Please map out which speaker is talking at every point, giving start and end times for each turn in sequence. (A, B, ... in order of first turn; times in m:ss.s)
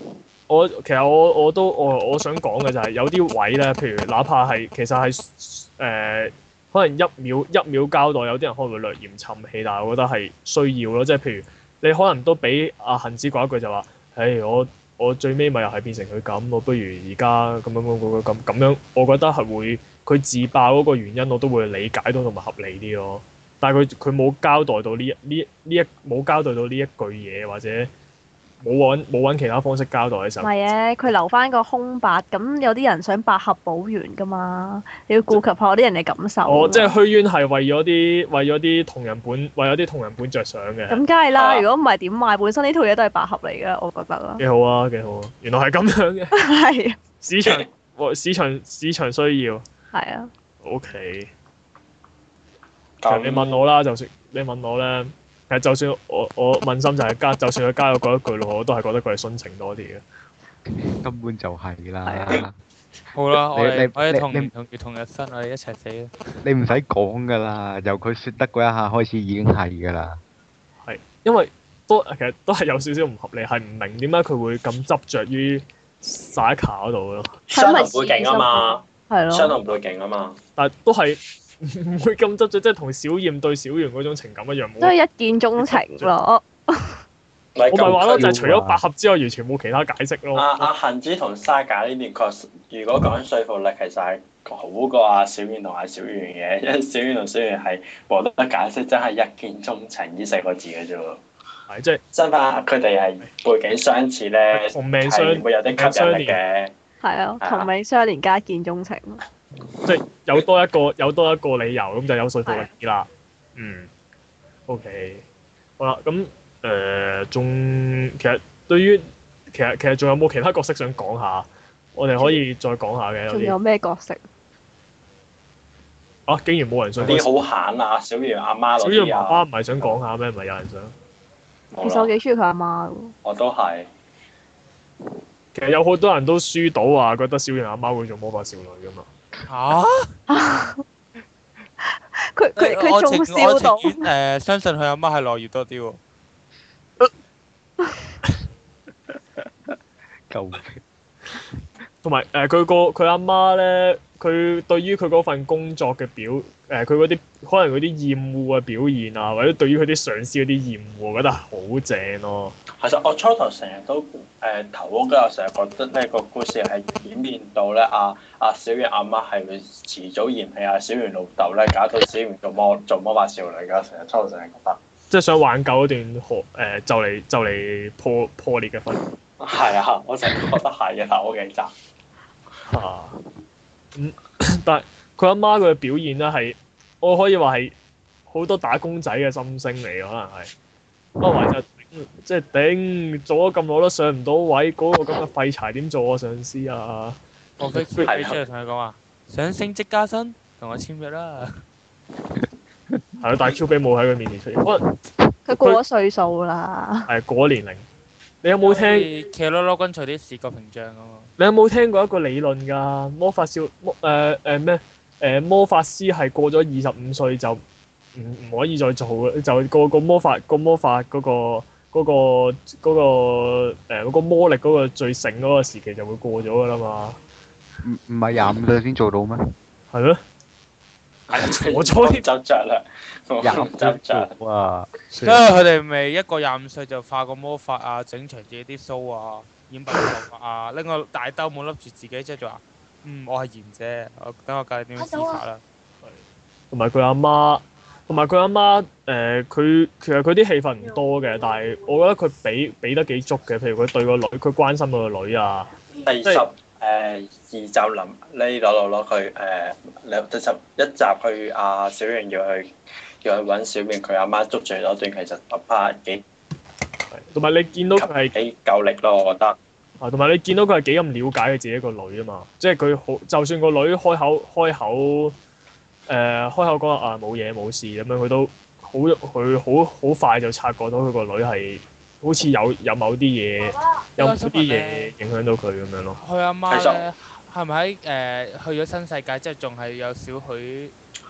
0:00.5-0:27.9 A
0:28.6-0:30.5 A
0:30.4-0:37.0 B
0:36.4-0:41.0 A
0:40.9-0:44.4 B
0:41.3-0:41.7 C
0:44.4-0:46.4 A
0:46.3-0:47.0 B
0:47.2-0:49.6 A
0:49.9-0:50.3 B
0:50.6-0:51.3 A
0:53.0-0:53.6 C
0:53.1-1:00.0 A
1:00.9-1:02.6 D
1:02.1-1:02.4 B
1:03.1-1:06.1 E
1:03.5-1:04.5 D
1:06.4-1:10.2 D
1:10.8-1:17.3 A
1:17.5-1:19.6 B
1:17.5-1:20.4 C
1:20.6-1:25.0 A
1:24.8-1:27.0 B
1:25.6-1:26.1 A
1:27.6-1:28.3 C
1:27.7-1:30.7 A
1:27.8-1:28.8 D
1:30.4-1:41.2 C
1:41.7-1:42.0 A
1:42.1-1:46.7 C
1:44.5-1:46.4 A
1:47.0-1:49.2 B
1:47.4-1:47.7 C
1:49.8-1:53.9 A
1:54.7-1:55.2 A
1:55.8-2:03.6 A
2:03.3-2:04.2 B
2:06.3-2:07.3 A
2:07.0-2:09.4 C
2:08.8-2:10.9 A
2:11.7-2:12.1 C
2:11.8-2:13.1 B
2:13.2-2:13.9 C
2:15.6-2:19.1 A
2:19.5-2:20.1 E
2:20.3-2:20.8 B
2:22.2-2:24.1 B
2:22.6-2:26.0 E
2:30.3-2:30.8 D
2:32.0-2:42.6 A
2:42.8-2:54.8 C
2:55.1-2:59.0 A
2:59.4-3:01.7 C
3:02.7-3:03.2 A
3:04.0-3:07.7 A
3:08.3-3:10.5 A
3:11.2-3:17.2 A
3:17.6-3:21.6 E
3:18.0-3:18.4 C
3:23.2-3:24.9 A
3:25.5-3:27.1 B
3:25.5-3:25.8 A
3:27.1-3:27.8 A
3:28.4-3:29.1 A
3:28.6-3:31.3 E
3:31.4-3:37.6 A
3:38.2-3:47.2 A
3:47.8-3:49.5 D
3:49.9-3:50.2 A
3:51.3-3:54.3 C
3:51.3-3:52.2 A
3:53.4-3:54.9 D
3:55.1-3:55.4 A
3:55.2-4:05.6 E
4:06.7-4:15.7 A
4:16.0-4:26.2 C
4:27.1-4:28.4 A
4:28.0-4:29.6 C
4:30.0-4:35.4 A
4:36.1-4:46.2 A
4:44.2-4:45.1 E
4:46.2-4:50.9 E
4:46.7-4:47.0 C